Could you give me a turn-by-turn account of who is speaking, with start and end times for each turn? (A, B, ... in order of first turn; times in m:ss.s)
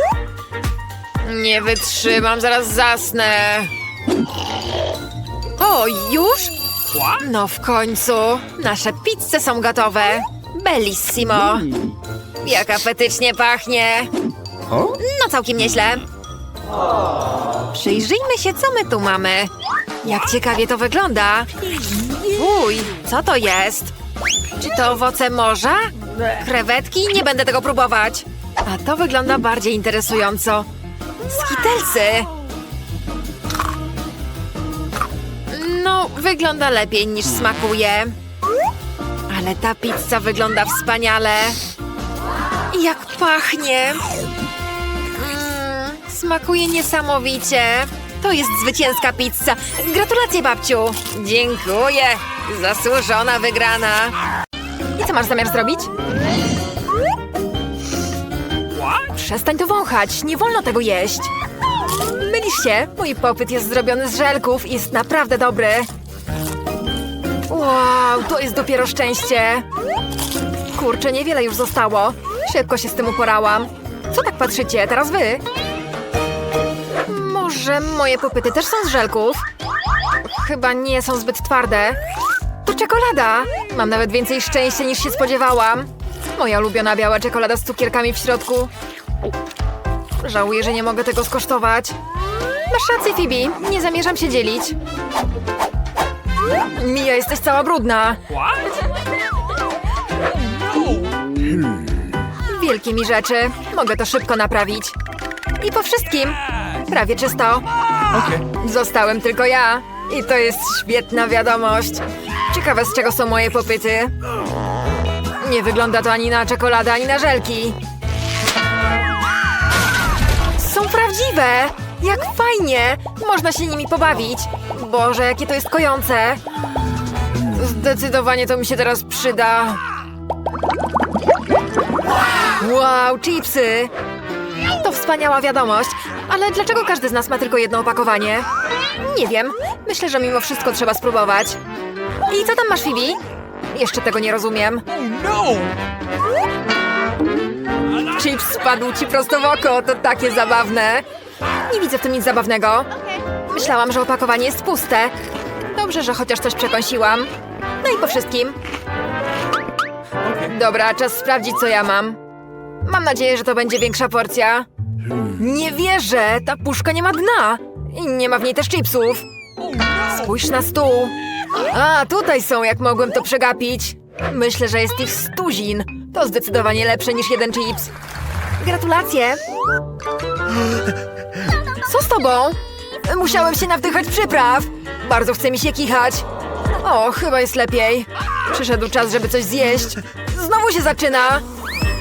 0:01.2-0:03.7 A
0:05.6-0:06.6 A
0:07.2-0:11.7 A
0:12.4-0:14.1 A
0:15.0-0:16.0 A
0:17.7-0:19.5 A
0:20.0-0:21.5 A
0:21.9-0:22.3 B
0:22.3-0:23.9 A
0:24.6-0:30.7 A
0:31.2-0:32.3 A
0:35.5-0:38.2 A
0:39.3-0:41.6 A
0:42.7-0:44.1 A
0:45.2-0:54.2 A
0:55.0-0:55.9 A
0:59.0-1:01.3 A
1:02.2-1:05.9 A
1:07.5-1:09.7 A
1:10.7-1:15.4 A
1:17.1-1:19.4 A
1:20.2-1:22.0 A
1:22.6-1:28.7 A
1:30.2-1:32.0 A
1:32.7-1:34.8 A
1:36.7-1:38.2 A
1:40.2-1:41.8 B
1:42.5-1:45.0 A
1:45.6-1:54.1 A
1:48.1-1:48.4 B
1:55.4-1:57.8 A
2:00.6-2:06.4 A
2:07.5-2:09.8 A
2:12.6-2:13.9 A
2:14.8-2:21.6 A
2:22.3-2:23.2 A
2:23.7-2:24.8 A
2:24.9-2:25.8 B
2:28.1-2:31.0 A
2:31.7-2:35.1 A
2:35.7-2:37.3 A
2:37.8-2:38.6 A
2:40.2-2:40.5 B
2:40.4-2:42.2 A
2:42.8-2:44.7 A
2:45.2-2:49.2 A
2:49.6-2:50.4 B
2:50.1-2:51.1 A
2:51.7-2:57.9 A
2:58.6-2:59.4 A
3:01.9-3:06.2 A
3:06.8-3:11.4 A